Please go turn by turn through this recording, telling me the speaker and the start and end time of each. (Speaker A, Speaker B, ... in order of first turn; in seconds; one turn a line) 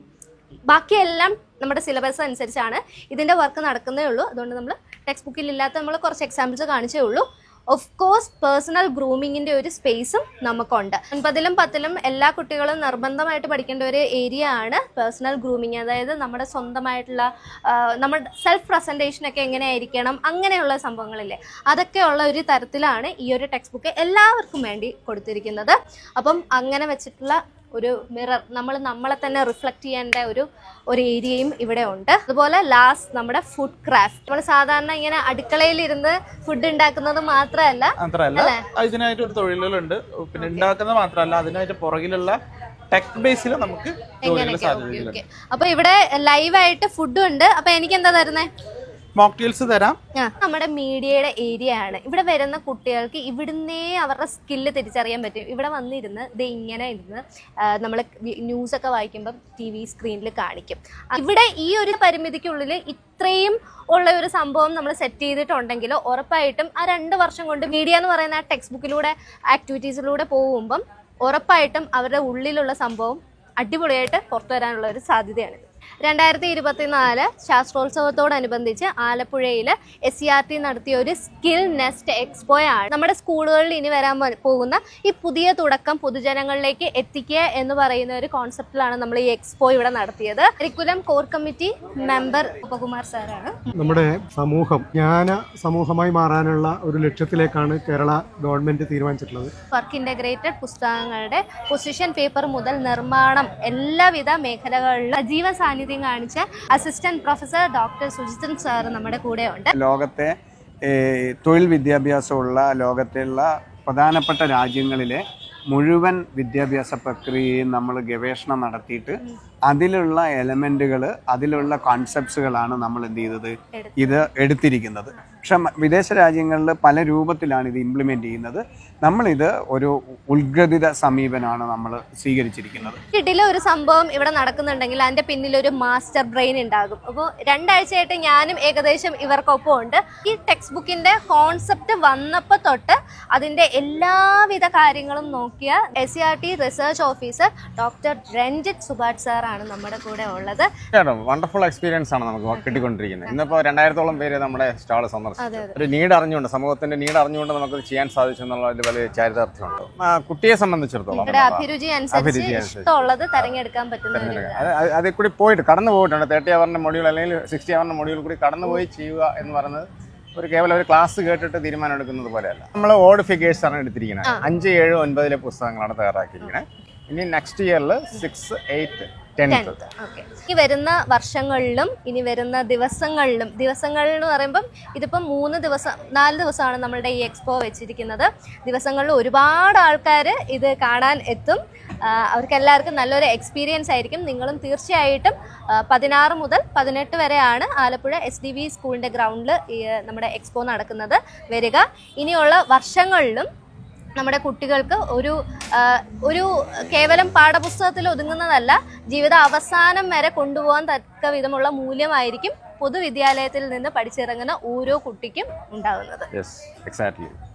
Speaker A: 0.7-38.6
Speaker B: 38.0-42.4
Speaker A: 40.4-40.7
Speaker B: 42.9-45.2
Speaker A: 44.2-48.5
Speaker B: 49.2-50.0
Speaker A: 50.2-93.6
Speaker C: 93.7-99.5
Speaker A: 99.7-109.7
Speaker D: 109.8-110.3
Speaker D: 110.9-133.0
Speaker A: 123.7-124.2
Speaker A: 133.1-150.7
Speaker E: 150.9-162.9
Speaker A: 152.6-153.3
Speaker A: 155.4-155.8
Speaker A: 161.1-164.7
Speaker E: 164.1-179.8
Speaker A: 179.5-203.5
Speaker A: 204.2-216.3
Speaker E: 216.3-217.3